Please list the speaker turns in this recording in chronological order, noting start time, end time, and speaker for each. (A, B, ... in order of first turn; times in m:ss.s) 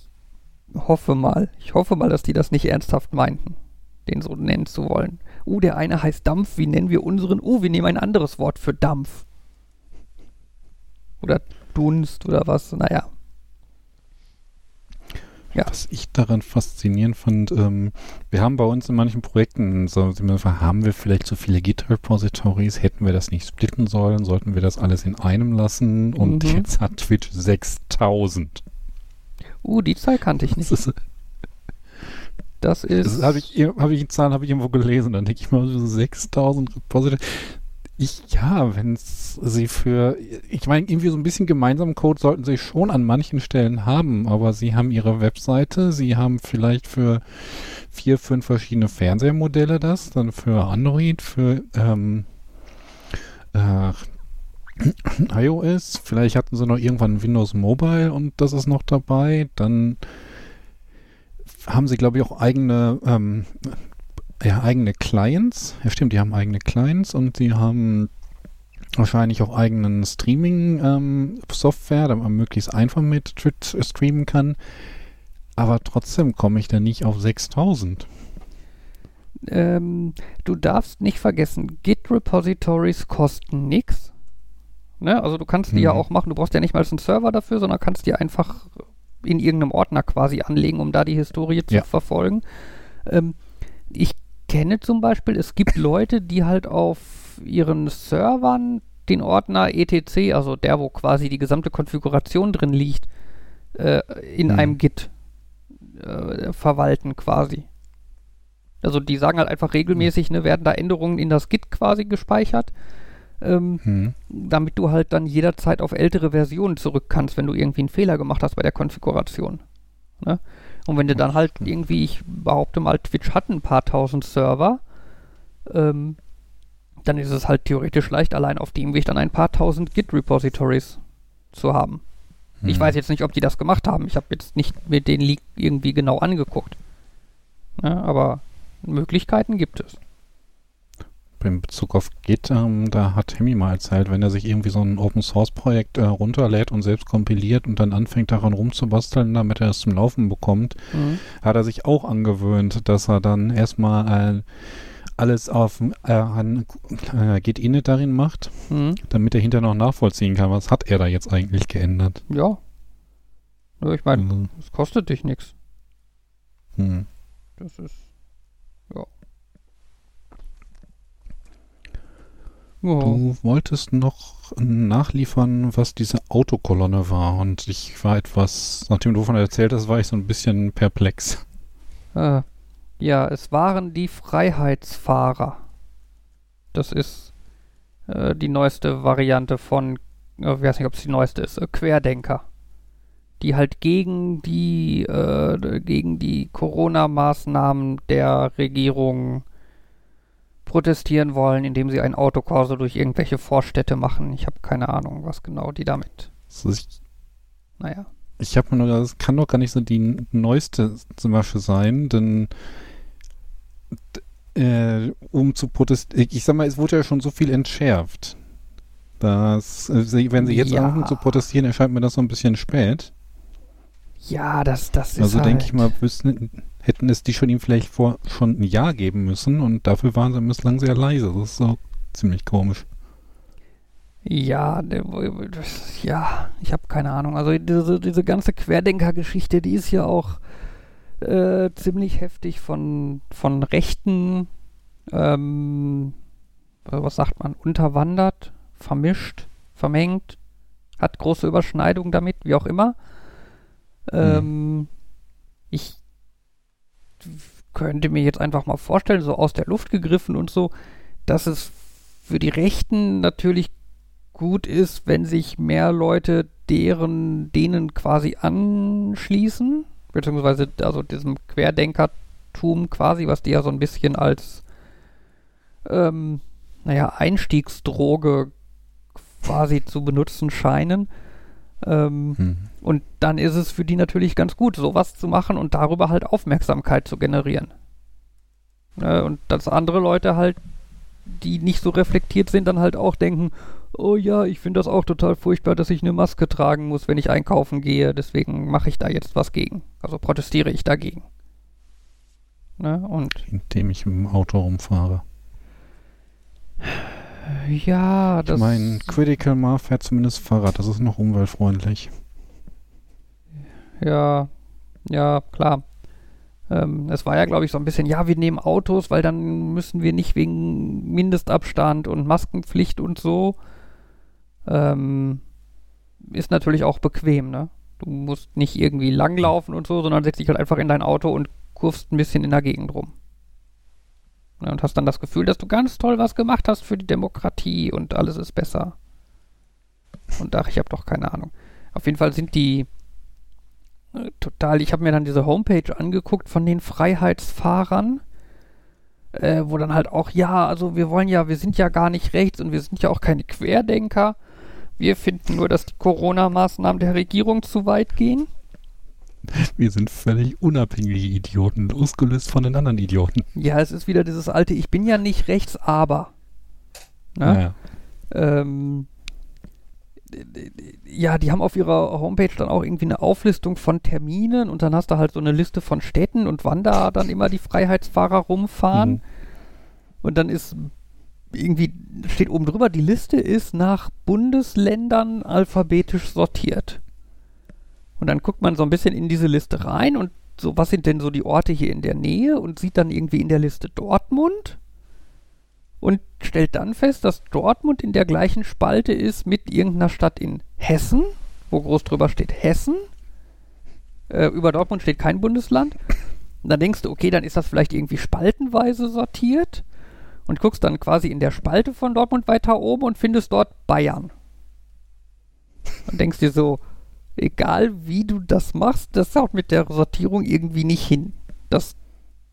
0:00.7-0:09.2 A
0:11.2-0:13.1 A
0:15.6-0:28.6 B
0:26.2-0:26.7 A
0:29.6-0:30.8 A
0:30.6-0:30.9 B
0:32.6-0:33.4 A
0:33.0-0:52.3 B
0:53.5-0:54.1 B
0:54.8-1:00.0 B
1:01.5-1:03.8 B
1:04.4-1:08.1 B
1:09.0-1:14.6 B
1:15.6-1:18.1 B
1:19.5-1:24.1 A
1:25.0-1:28.7 A
1:25.7-1:26.0 B
1:29.2-1:32.4 A
1:33.0-1:33.4 A
1:33.9-1:43.1 A
1:43.7-1:45.1 A
1:44.5-1:44.8 B
1:46.0-1:47.6 A
1:48.8-1:52.7 A
1:53.4-1:59.6 A
1:53.8-1:54.1 B
2:00.2-2:04.8 A
2:05.7-2:06.2 A
2:07.0-2:11.0 A
2:11.5-2:12.0 A
2:12.6-2:13.0 B
2:12.6-2:16.8 A
2:17.8-2:20.0 A
2:21.4-2:42.2 B
2:30.9-2:31.2 A
2:38.7-2:39.0 A
2:42.3-2:42.6 A
2:43.8-2:45.5 A
2:44.2-2:44.5 B
2:46.8-2:47.1 B
2:47.6-2:48.0 A
2:52.8-2:53.2 A
2:53.0-3:01.4 B
3:02.1-3:02.4 A
3:03.0-3:05.6 A
3:06.7-3:07.3 A
3:08.1-3:12.4 A
3:13.4-3:19.4 A
3:20.6-3:26.3 A
3:26.5-3:26.9 B
3:27.8-3:28.1 A
3:28.4-3:32.5 B
3:34.1-3:38.4 B
3:39.2-3:43.1 B
3:40.4-3:41.4 A
3:44.2-3:45.9 A
3:45.2-3:52.9 B
3:54.2-4:00.4 A
4:01.2-4:04.5 A
4:05.1-4:06.1 A
4:06.9-4:10.4 A
4:11.0-4:13.0 A
4:14.1-4:14.9 A
4:14.2-4:14.5 B
4:15.7-4:16.0 A
4:17.2-4:20.7 A
4:21.3-4:21.7 A
4:22.2-4:23.7 A
4:24.3-4:34.6 A
4:35.8-4:38.5 A
4:39.4-4:41.1 A
4:41.8-4:47.7 A
4:42.4-4:42.6 B
4:49.0-4:50.6 A
4:51.3-5:01.2 A
5:02.8-5:03.4 A
5:03.5-5:05.2 B
5:06.8-5:09.1 A
5:08.5-5:12.1 B
5:14.0-5:14.5 A
5:15.0-5:15.8 A
5:16.7-5:23.6 A
5:24.6-5:25.4 A
5:26.2-5:33.1 A
5:34.6-5:38.9 A
5:40.4-5:42.9 A
5:44.1-5:48.2 A
5:49.3-5:54.4 A
5:55.0-5:58.5 A
5:59.5-6:03.4 B
6:03.5-6:06.3 A
6:07.4-6:07.6 A
6:07.4-6:07.7 B
6:08.3-6:09.1 A
6:10.3-6:19.2 A
6:18.9-6:19.2 B
6:20.2-6:20.9 A
6:21.5-6:27.0 A
6:28.2-6:34.8 A
6:36.0-6:43.0 A
6:44.3-6:46.0 A
6:46.6-6:49.8 A
6:50.5-6:54.3 A
6:56.1-6:56.8 A
6:57.4-7:02.0 A